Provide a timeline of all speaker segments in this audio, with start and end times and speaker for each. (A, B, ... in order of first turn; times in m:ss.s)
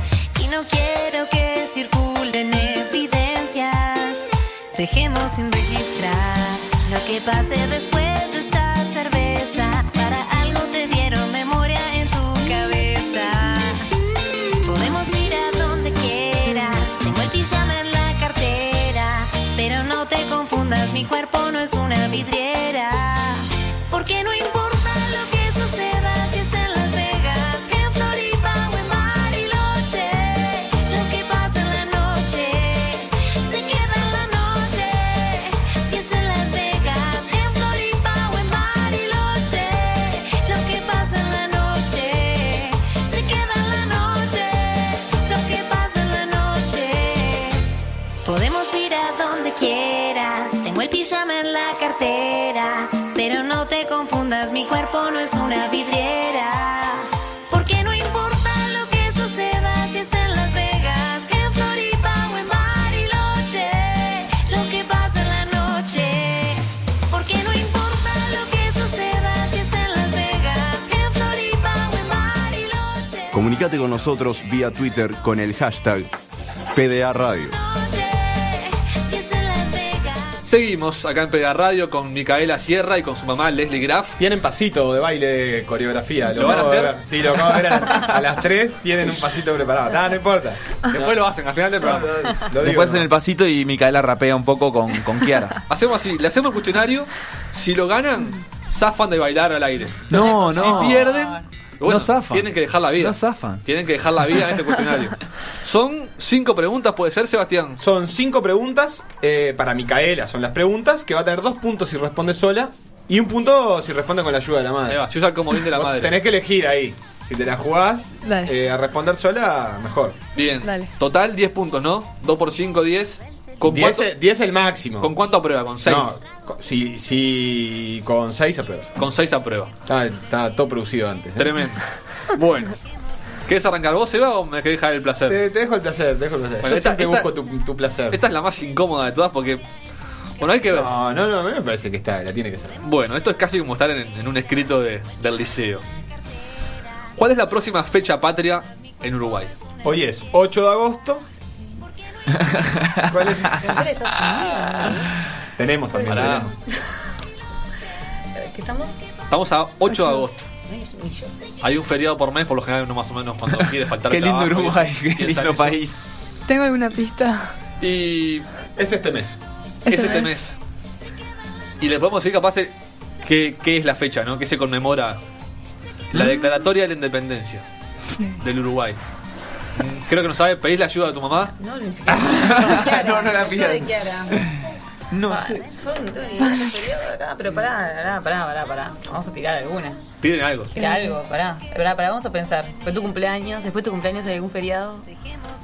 0:00.3-0:13.9 A
0:14.6-0:47.6 A
0:48.2-1:13.4 A
1:13.3-1:16.1 B
1:16.7-1:17.5 B
1:17.5-1:20.4 A
1:20.4-1:24.2 C
1:24.2-1:31.2 D
1:26.3-1:27.0 C
1:30.9-1:32.4 C
1:31.8-1:33.1 D
1:32.5-1:35.6 E
1:35.7-1:47.8 C
1:40.1-1:41.1 E
1:40.1-1:41.4 F
1:41.8-1:43.6 E
1:47.8-2:00.2 D
1:54.9-1:56.2 C
1:58.2-1:58.5 G
2:00.3-2:04.1 C
2:00.6-2:00.9 G
2:03.6-2:05.1 D
2:05.0-2:06.1 C
2:05.8-2:08.9 D
2:09.0-2:09.7 C
2:09.8-2:11.6 D
2:11.4-2:12.8 C
2:13.5-2:15.4 C
2:15.3-2:18.2 D
2:16.6-2:17.4 C
2:18.1-2:19.6 C
2:20.4-2:20.9 C
2:20.7-2:22.8 D
2:22.8-2:25.8 C
2:27.2-2:29.6 C
2:29.8-2:31.2 D
2:32.3-2:33.2 E
2:33.1-2:33.7 D
2:33.5-2:35.1 F
2:34.2-2:34.9 E
2:35.6-2:36.5 D
2:35.9-2:36.9 F
2:36.0-2:36.5 C
2:38.4-2:39.0 F
2:39.3-2:40.5 C
2:39.9-2:40.2 G
2:40.7-2:41.5 F
2:41.6-2:45.8 C
2:44.0-2:46.0 E
2:46.5-2:47.5 G
2:47.8-2:48.5 C
2:48.8-2:49.4 D
2:49.8-2:50.4 G
2:49.8-2:50.6 C
2:51.8-2:55.2 C
2:56.1-2:57.6 C
2:56.1-2:56.4 E
2:58.3-2:59.0 C
2:59.8-3:01.5 C
3:01.5-3:04.5 F
3:02.1-3:05.7 E
3:05.3-3:10.0 F
3:06.4-3:06.8 G
3:10.2-3:10.8 C
3:10.7-3:15.1 F
3:10.8-3:11.1 G